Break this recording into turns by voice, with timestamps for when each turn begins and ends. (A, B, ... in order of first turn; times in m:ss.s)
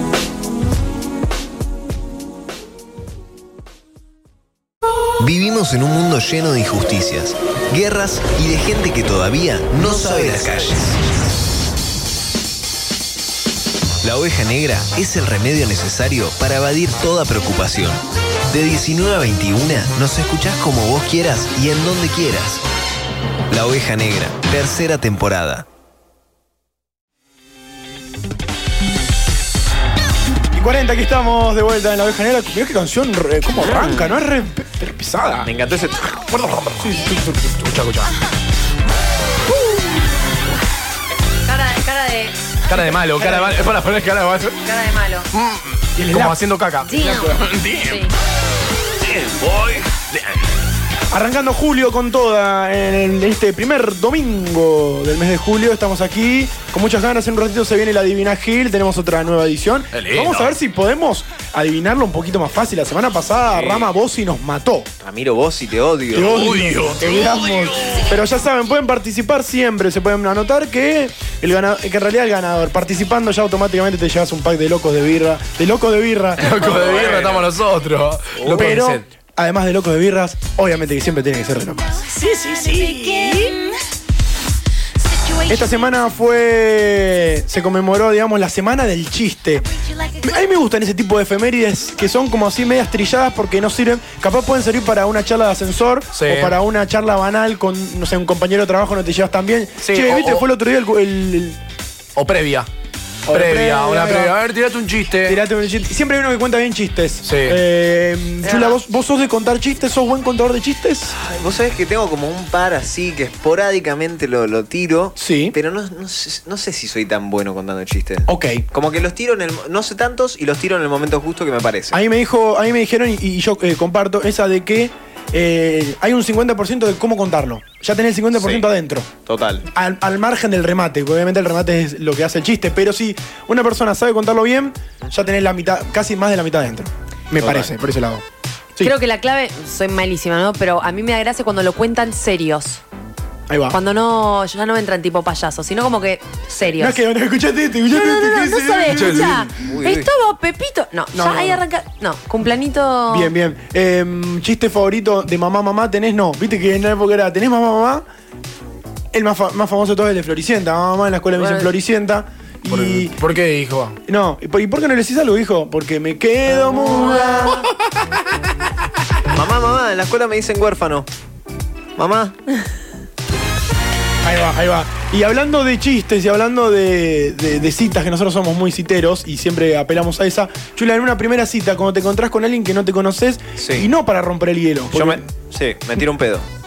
0:05.2-0:11.0 A
0:09.8-0:10.7 B
0:14.0-0:22.6 A
0:23.5-0:25.6 A
0:30.5-0:35.5 C
0:33.6-0:34.2 B
0:35.4-0:36.2 B
0:36.3-0:36.9 D
0:36.8-0:37.6 C
0:37.6-0:38.1 D
0:41.4-0:42.3 E
0:42.7-0:44.6 D
0:43.1-0:43.7 C
0:44.6-0:45.3 E
0:45.3-0:48.1 D
0:46.0-0:46.4 C
0:46.8-0:48.1 E
0:46.9-0:47.4 C
0:49.2-0:50.4 D
0:51.1-1:04.9 C
0:59.9-1:00.5 D
1:03.5-1:03.9 B
1:05.0-1:06.4 B
1:06.1-1:17.3 C
1:06.2-1:08.1 D
1:16.4-1:19.0 D
1:16.6-1:17.4 B
1:18.4-1:18.8 B
1:18.5-1:22.0 C
1:22.1-1:23.6 D
1:25.4-1:29.6 C
1:30.2-1:41.6 C
1:36.1-1:36.6 D
1:39.8-1:40.5 D
1:42.2-1:42.7 D
1:43.3-1:44.4 C
1:43.3-1:45.4 D
1:45.2-1:51.2 C
1:47.2-1:47.6 D
1:48.4-1:48.8 E
1:51.2-2:02.0 B
1:55.2-1:55.5 C
1:58.3-1:58.6 C
2:01.9-2:09.1 C
2:08.3-2:08.6 B
2:09.2-2:09.7 B
2:09.7-2:18.2 C
2:17.4-2:17.7 B
2:18.8-2:22.8 E
2:23.5-2:23.8 C
2:23.7-2:27.0 E
2:26.7-2:29.5 C
2:27.9-2:33.3 E
2:29.6-2:30.1 B
2:31.1-2:31.6 C
2:33.1-2:38.0 C
2:39.1-2:43.2 C
2:41.4-2:41.7 E
2:42.7-2:44.0 D
2:44.1-2:47.6 C
2:46.9-2:47.4 E
2:49.3-2:51.1 B
2:52.0-2:52.4 B
2:54.2-3:05.2 C
3:03.6-3:03.9 B
3:04.9-3:06.5 B